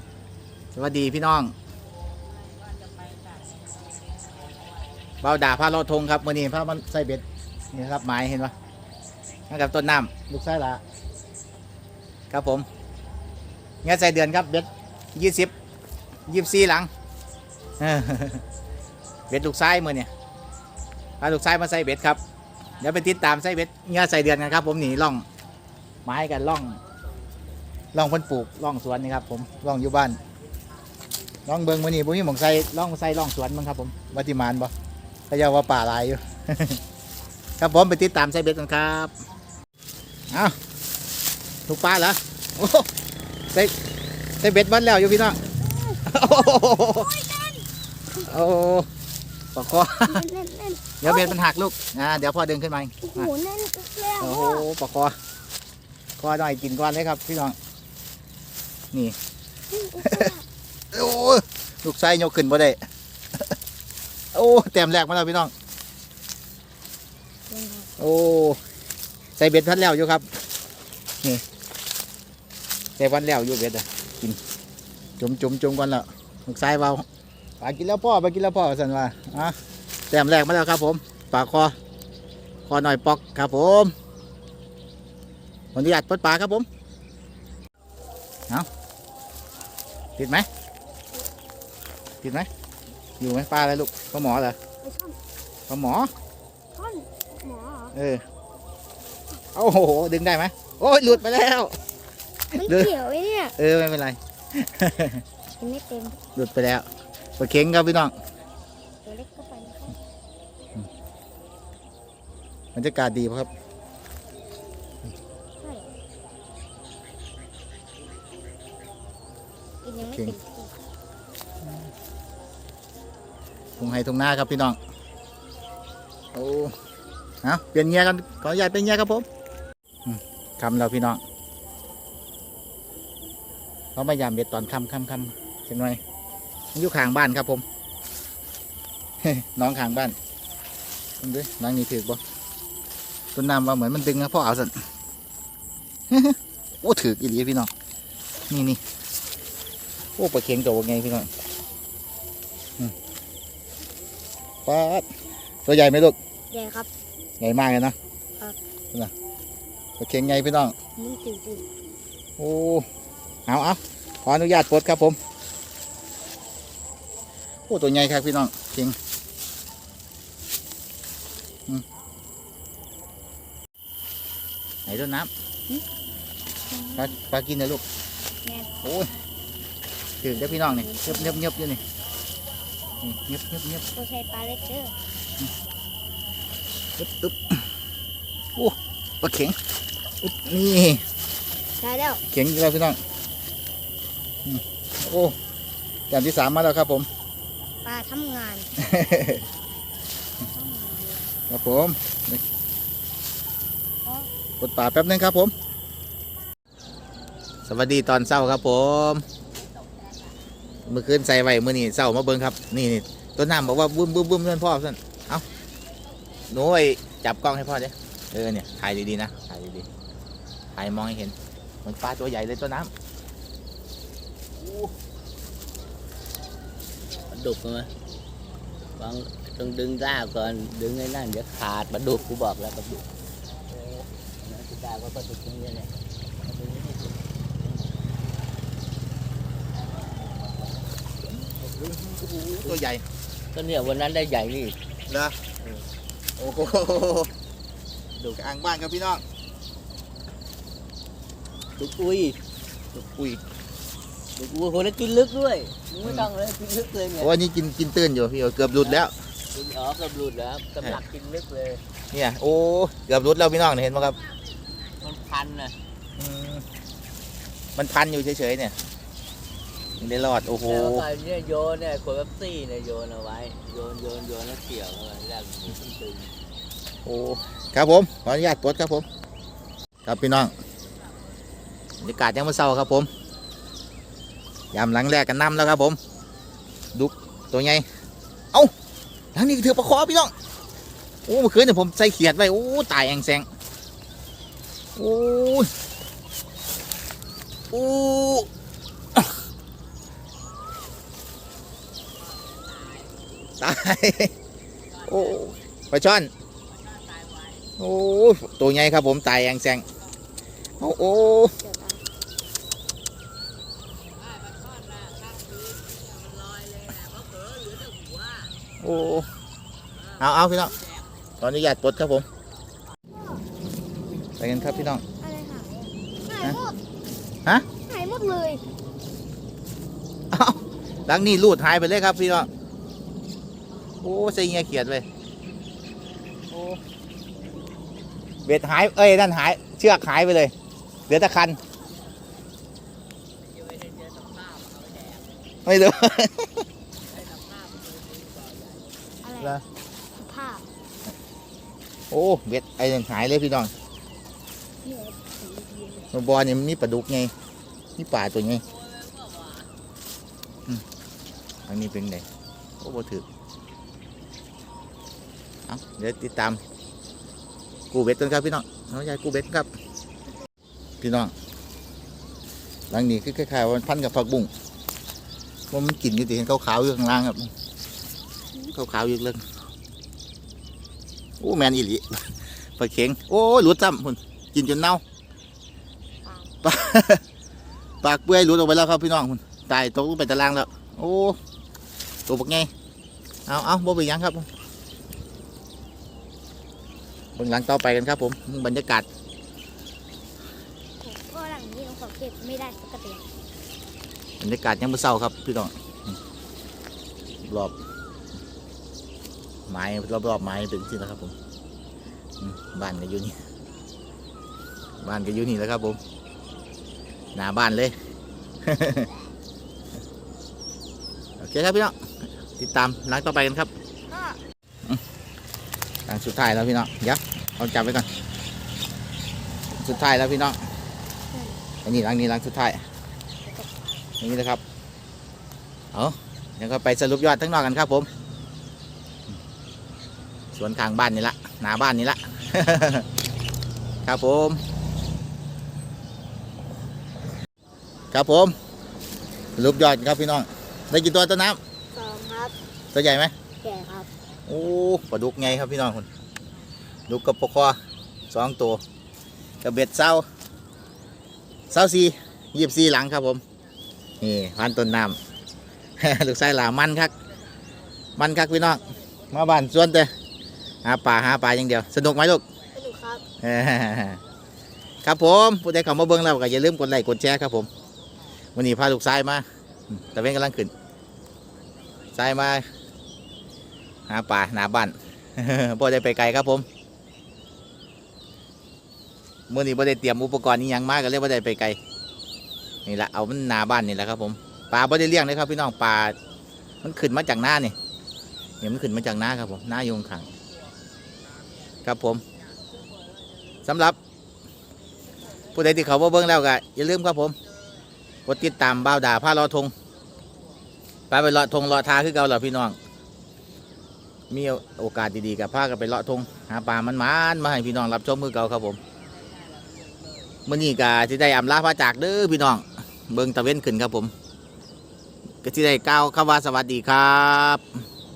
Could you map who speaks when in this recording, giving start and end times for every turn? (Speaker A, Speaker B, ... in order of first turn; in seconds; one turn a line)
Speaker A: 0.8-1.5
Speaker A: 5.2-8.5
Speaker A: 9.5-10.8
Speaker A: 12.3-12.7
Speaker A: 13.8-15.5
Speaker A: 16.3-16.9
Speaker A: 17.8-18.4
Speaker A: 19.3-20.1
Speaker A: 21.2-22.2
Speaker A: 22.8-25.2
Speaker A: 26.0-26.8
Speaker A: 27.9-30.2
Speaker A: 31.5-34.7
Speaker A: 35.3-36.8
Speaker A: 37.6-39.1
Speaker A: 41.7-42.9
Speaker A: 44.4-45.4
Speaker B: 45.6-47.6
Speaker A: 46.1-47.1
Speaker A: 48.2-48.9
Speaker A: 49.5-50.2
Speaker B: 49.8-51.4
Speaker A: 51.0-53.3
Speaker B: 53.0-54.7
Speaker A: 54.2-55.1
Speaker A: 56.2-57.5
Speaker B: 59.7-60.5
Speaker A: 60.0-60.3
Speaker A: 60.9-62.8
Speaker A: 64.3-65.5
Speaker B: 67.5-67.9
Speaker A: 68.0-68.6
Speaker A: 69.4-70.2
Speaker A: 73.0-74.4
Speaker A: 75.2-77.0
Speaker A: 77.6-79.5
Speaker A: 80.1-81.8
Speaker A: 82.7-83.9
Speaker A: 85.8-86.7
Speaker A: 90.2-90.5
Speaker A: 92.2-92.5
Speaker A: 93.2-94.6
Speaker B: 94.8-95.2
Speaker A: 95.7-96.1
Speaker B: 96.8-98.0
Speaker A: 97.9-98.2
Speaker A: 99.5-101.8
Speaker B: 102.5-103.5
Speaker A: 102.6-102.9
Speaker A: 103.6-105.2
Speaker B: 105.6-106.2
Speaker A: 106.3-106.9
Speaker A: 107.4-108.1
Speaker B: 109.0-110.0
Speaker A: 112.8-113.5
Speaker B: 115.6-115.9
Speaker B: 119.8-120.7
Speaker A: 120.1-120.3
Speaker A: 123.8-124.8
Speaker A: 126.3-126.7
Speaker A: 127.4-129.3
Speaker A: 130.1-131.2
Speaker A: 134.0-136.0
Speaker A: 136.8-137.6
Speaker A: 139.2-140.2
Speaker A: 141.2-142.2
Speaker A: 143.3-144.7
Speaker A: 146.1-147.7
Speaker A: 148.5-148.8
Speaker A: 150.2-151.3
Speaker A: 154.7-155.1
Speaker A: 155.7-156.2
Speaker B: 156.5-156.9
Speaker A: 157.4-157.9
Speaker A: 160.0-160.8
Speaker B: 161.0-161.7
Speaker A: 162.4-162.9
Speaker A: 163.5-165.2
Speaker A: 167.7-169.0
Speaker A: 174.9-175.3
Speaker B: 176.7-177.2
Speaker A: 177.0-177.8
Speaker B: 178.4-178.7
Speaker A: 178.8-179.1
Speaker A: 180.2-181.8
Speaker B: 180.4-181.4
Speaker A: 183.0-183.8
Speaker B: 183.9-184.9
Speaker A: 187.0-187.6
Speaker A: 188.6-189.6
Speaker A: 190.2-191.0
Speaker B: 191.8-192.2
Speaker A: 192.3-193.0
Speaker A: 194.5-195.4
Speaker A: 196.1-197.1
Speaker B: 197.8-198.7
Speaker A: 198.8-199.4
Speaker B: 200.5-201.3
Speaker A: 201.5-202.4
Speaker B: 204.1-204.3
Speaker A: 204.6-205.5
Speaker A: 207.7-209.2
Speaker A: 210.9-215.4
Speaker A: 216.5-219.9
Speaker A: 220.8-222.9
Speaker C: 224.6-224.9
Speaker C: 227.3-227.9
Speaker C: 229.0-233.1
Speaker C: 233.7-237.2
Speaker A: 241.6-243.0
Speaker C: 243.5-244.8
Speaker A: 245.1-245.4
Speaker A: 246.4-247.3
Speaker A: 248.2-249.2
Speaker C: 251.8-252.4
Speaker A: 253.0-253.4
Speaker C: 254.4-257.3
Speaker A: 257.2-259.1
Speaker C: 258.8-261.8
Speaker A: 262.1-264.2
Speaker C: 264.8-265.8
Speaker A: 266.2-266.6
Speaker A: 267.8-268.8
Speaker A: 270.0-271.1
Speaker C: 270.6-276.3
Speaker A: 277.1-279.1
Speaker A: 280.1-280.5
Speaker A: 282.0-283.1
Speaker A: 284.7-286.0
Speaker A: 286.9-287.9
Speaker A: 289.4-290.3
Speaker A: 291.2-293.5
Speaker A: 295.0-295.7
Speaker A: 297.7-298.5
Speaker C: 302.5-303.1
Speaker A: 303.6-304.3
Speaker C: 305.0-305.4
Speaker A: 305.1-306.3
Speaker C: 307.1-307.6
Speaker A: 307.8-309.9
Speaker A: 310.8-311.5
Speaker B: 311.5-312.0
Speaker C: 314.2-318.5
Speaker A: 318.8-319.3
Speaker A: 320.2-320.8
Speaker A: 321.4-322.2
Speaker A: 324.4-325.0
Speaker B: 324.6-326.8
Speaker B: 327.9-328.6
Speaker A: 330.3-332.5
Speaker A: 334.0-335.1
Speaker A: 336.5-336.8
Speaker A: 338.4-340.5
Speaker A: 341.1-341.6
Speaker C: 343.5-345.3
Speaker A: 345.6-346.5
Speaker C: 347.1-349.0
Speaker B: 349.2-349.6
Speaker B: 350.2-350.7
Speaker A: 352.1-353.7
Speaker B: 354.8-356.1
Speaker A: 356.1-357.3
Speaker A: 358.0-358.6
Speaker C: 359.1-359.5
Speaker A: 361.7-362.2
Speaker A: 362.8-363.2
Speaker A: 365.7-366.6
Speaker A: 367.9-369.7
Speaker A: 371.0-371.3
Speaker A: 372.9-374.5
Speaker A: 375.7-377.5
Speaker A: 378.7-379.4
Speaker A: 381.4-382.2
Speaker A: 382.8-385.0
Speaker B: 386.2-386.5
Speaker A: 386.6-387.2
Speaker A: 388.0-391.4
Speaker A: 392.3-392.7
Speaker A: 393.5-394.5
Speaker A: 397.4-399.1
Speaker B: 401.0-403.3
Speaker A: 404.4-405.7
Speaker A: 407.4-407.7
Speaker A: 409.7-411.3
Speaker A: 412.4-413.4
Speaker A: 415.0-416.0
Speaker A: 417.4-417.9
Speaker A: 418.7-419.1
Speaker A: 421.4-422.0
Speaker A: 422.6-423.7
Speaker B: 424.1-424.4
Speaker A: 426.1-428.1
Speaker A: 429.8-430.6
Speaker B: 431.3-431.6
Speaker A: 431.9-432.8
Speaker B: 433.4-434.0
Speaker A: 434.2-434.6
Speaker A: 435.9-438.1
Speaker A: 440.6-443.1
Speaker A: 444.1-444.6
Speaker A: 448.1-448.6
Speaker A: 449.6-451.6
Speaker B: 451.9-452.6
Speaker A: 452.9-453.3
Speaker B: 453.6-454.1
Speaker A: 454.5-456.1
Speaker A: 457.1-457.8
Speaker A: 458.3-458.8
Speaker A: 459.6-460.2
Speaker A: 461.7-463.4
Speaker A: 464.2-465.2
Speaker A: 466.0-467.1
Speaker A: 468.2-470.1
Speaker A: 470.9-472.4
Speaker B: 472.7-473.2
Speaker A: 473.4-474.2
Speaker A: 475.0-477.7
Speaker A: 478.6-480.7
Speaker A: 482.1-482.6
Speaker A: 484.1-486.7
Speaker A: 489.5-491.8
Speaker A: 492.9-496.1
Speaker A: 496.8-497.8
Speaker A: 498.6-500.3
Speaker A: 501.8-502.2
Speaker A: 503.6-504.0
Speaker A: 505.5-507.4
Speaker A: 508.3-509.7
Speaker A: 511.1-512.8
Speaker A: 514.3-518.8
Speaker A: 520.5-524.1
Speaker A: 525.4-527.6